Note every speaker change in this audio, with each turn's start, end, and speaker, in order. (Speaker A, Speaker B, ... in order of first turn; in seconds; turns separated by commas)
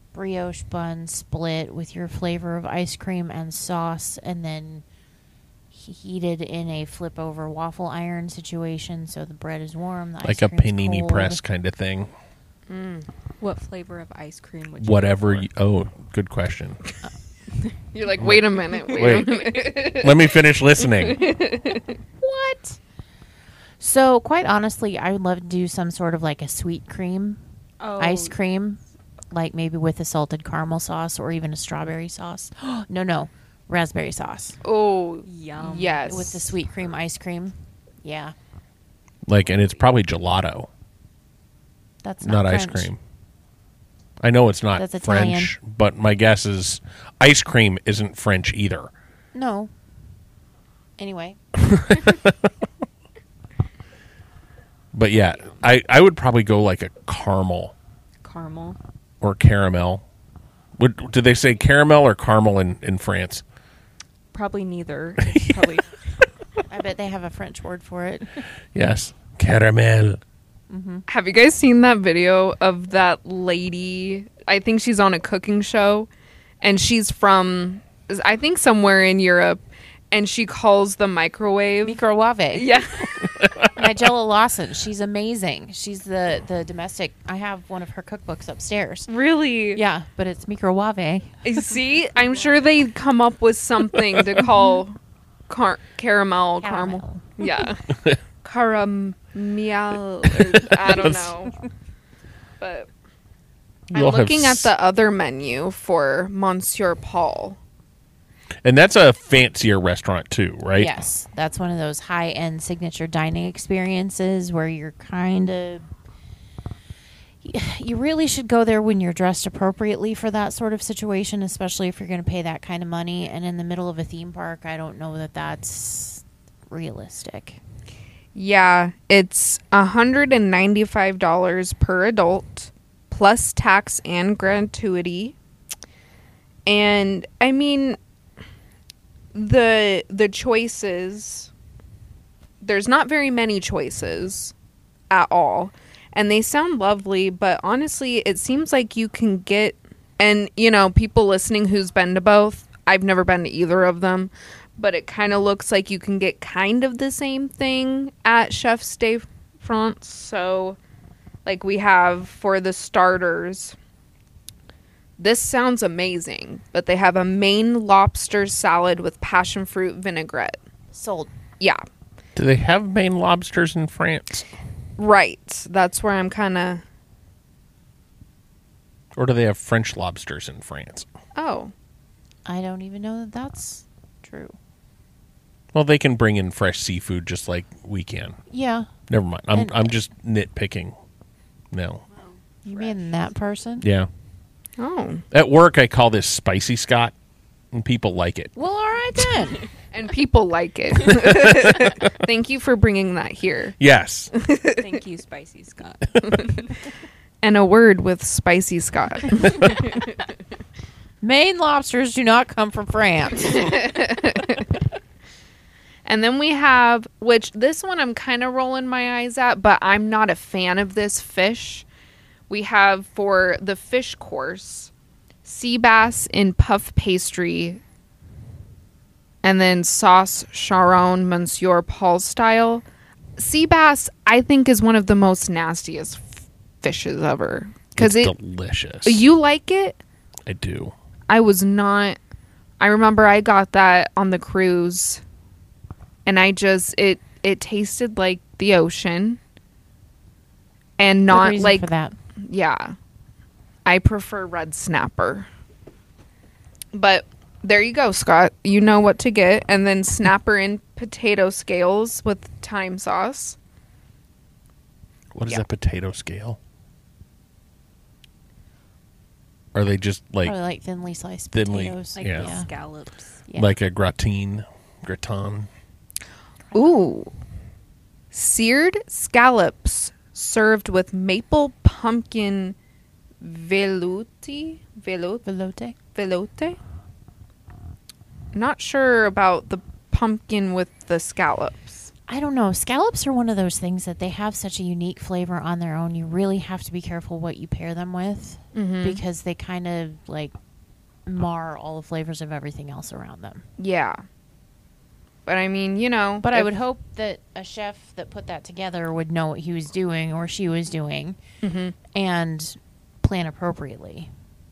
Speaker A: 0.1-4.8, Speaker A: 5.7-11.4, Speaker B: 10.2-12.1, Speaker C: 12.7-13.1, Speaker D: 13.4-15.5, Speaker B: 14.8-16.8, Speaker C: 17.9-21.9, Speaker B: 18.9-19.3, Speaker B: 19.8-21.2, Speaker A: 22.2-22.8, Speaker A: 23.8-27.4, Speaker D: 27.8-28.4, Speaker A: 28.0-28.8, Speaker A: 29.3-34.6, Speaker C: 34.6-36.5, Speaker D: 35.2-36.3, Speaker A: 36.0-38.4, Speaker B: 39.3-40.7, Speaker A: 42.0-42.9, Speaker B: 42.2-43.0, Speaker B: 44.2-48.9, Speaker A: 44.8-45.5, Speaker A: 49.3-49.7, Speaker A: 51.0-51.4, Speaker B: 51.6-52.5, Speaker B: 54.9-57.7, Speaker D: 58.2-58.8, Speaker B: 59.2-60.0, Speaker B: 60.8-63.4, Speaker D: 64.3-66.0, Speaker A: 66.7-68.4, Speaker B: 68.7-70.2, Speaker A: 70.7-71.0, Speaker C: 71.1-76.1, Speaker C: 76.6-82.0, Speaker A: 81.8-82.7, Speaker C: 82.5-83.4, Speaker A: 83.8-89.1, Speaker C: 89.1-89.8, Speaker A: 89.7-91.4, Speaker C: 91.4-95.0, Speaker C: 95.5-101.6, Speaker A: 96.6-97.4, Speaker B: 100.3-101.3, Speaker C: 102.6-102.9, Speaker B: 103.9-104.7, Speaker C: 103.9-107.6, Speaker B: 108.6-110.9, Speaker A: 110.8-115.9, Speaker A: 117.4-127.6, Speaker C: 128.3-135.3, Speaker C: 136.7-138.0, Speaker C: 139.3-141.5, Speaker C: 142.6-144.5, Speaker C: 145.1-160.8, Speaker C: 161.4-163.8, Speaker C: 165.2-170.6, Speaker A: 170.9-171.3, Speaker B: 172.4-174.4, Speaker C: 175.0-176.8, Speaker B: 179.2-181.1, Speaker C: 181.3-181.7, Speaker A: 182.4-184.6, Speaker B: 185.7-188.4, Speaker A: 188.5-188.9, Speaker B: 189.1-190.9, Speaker A: 189.5-189.9, Speaker B: 191.7-192.0, Speaker D: 192.2-193.0, Speaker A: 192.6-193.8, Speaker B: 193.8-194.1, Speaker C: 194.8-195.2, Speaker B: 195.3-197.1, Speaker B: 197.7-198.5, Speaker A: 198.6-199.6, Speaker C: 199.9-203.8, Speaker B: 201.1-201.9, Speaker B: 203.8-204.3, Speaker C: 204.3-204.9, Speaker D: 204.8-206.7, Speaker C: 207.4-210.0, Speaker A: 211.2-213.9, Speaker C: 213.5-214.6, Speaker C: 216.1-221.8, Speaker C: 222.5-224.9, Speaker C: 225.4-227.8, Speaker C: 229.4-232.8, Speaker C: 233.4-238.3, Speaker B: 238.0-239.2, Speaker C: 239.0-240.0, Speaker B: 240.4-240.9, Speaker C: 241.3-242.2, Speaker C: 242.8-245.2, Speaker C: 246.3-249.4, Speaker C: 251.0-251.9, Speaker A: 251.3-252.1, Speaker C: 252.4-252.9, Speaker C: 253.9-255.5, Speaker C: 256.9-263.6, Speaker B: 265.3-266.6, Speaker B: 269.7-270.6, Speaker A: 270.4-272.7, Speaker B: 271.5-272.6, Speaker D: 272.1-273.4, Speaker A: 273.5-273.7, Speaker B: 273.6-275.7, Speaker C: 276.7-277.3, Speaker C: 278.3-282.8, Speaker C: 283.4-285.4, Speaker A: 285.4-285.9, Speaker C: 286.1-286.8, Speaker C: 288.5-292.1, Speaker A: 292.3-300.5, Speaker C: 298.8-299.2, Speaker A: 301.3-303.6, Speaker C: 303.8-304.2, Speaker C: 305.4-306.7, Speaker A: 306.4-311.4, Speaker C: 311.6-312.0, Speaker A: 312.1-314.3